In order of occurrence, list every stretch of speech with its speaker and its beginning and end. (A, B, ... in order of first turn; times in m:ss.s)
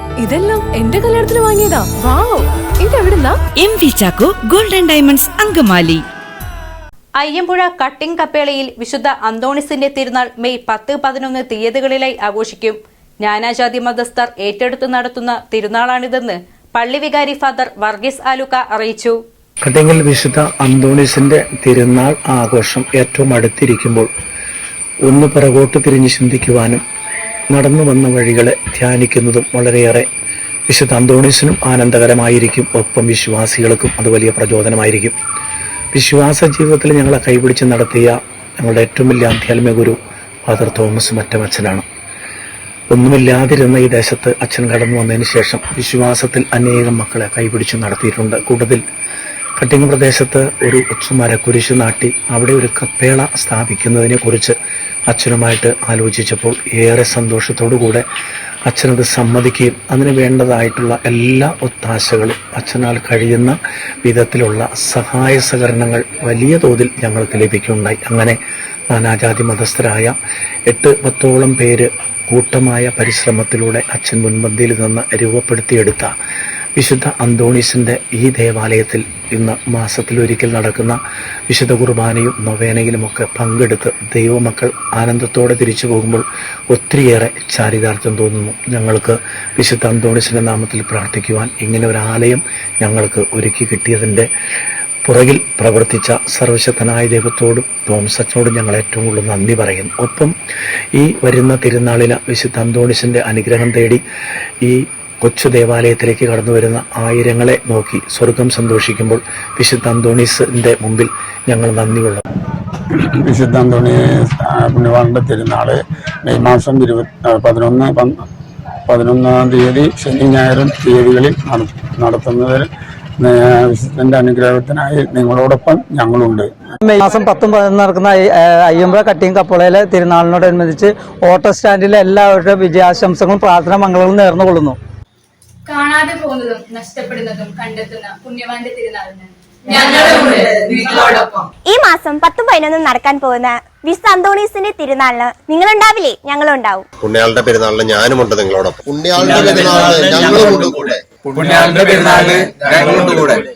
0:00.2-0:03.4 A
0:03.6-0:06.0 B
0:07.2-0:19.2 C
0:19.6-0:24.1 D
0:25.0-0:26.8 D
0:27.5-0:30.1 D
0:30.7-0:35.2 D
0:35.9-0:41.9 D
0:42.9-0:48.8 D
0:49.6-0:54.6 D
0:55.1-0:58.1 D
0:58.7-1:08.4 D
1:08.9-1:10.2 D
1:10.7-1:16.1 D
1:16.8-1:34.3 D
1:35.0-1:40.3 D
1:40.9-1:44.0 D
1:44.6-1:52.2 D
1:53.3-1:58.2 E
1:58.9-2:06.5 E
2:06.8-2:14.8 F
2:15.7-2:21.5 G
2:21.7-2:26.9 H
2:27.0-2:33.4 I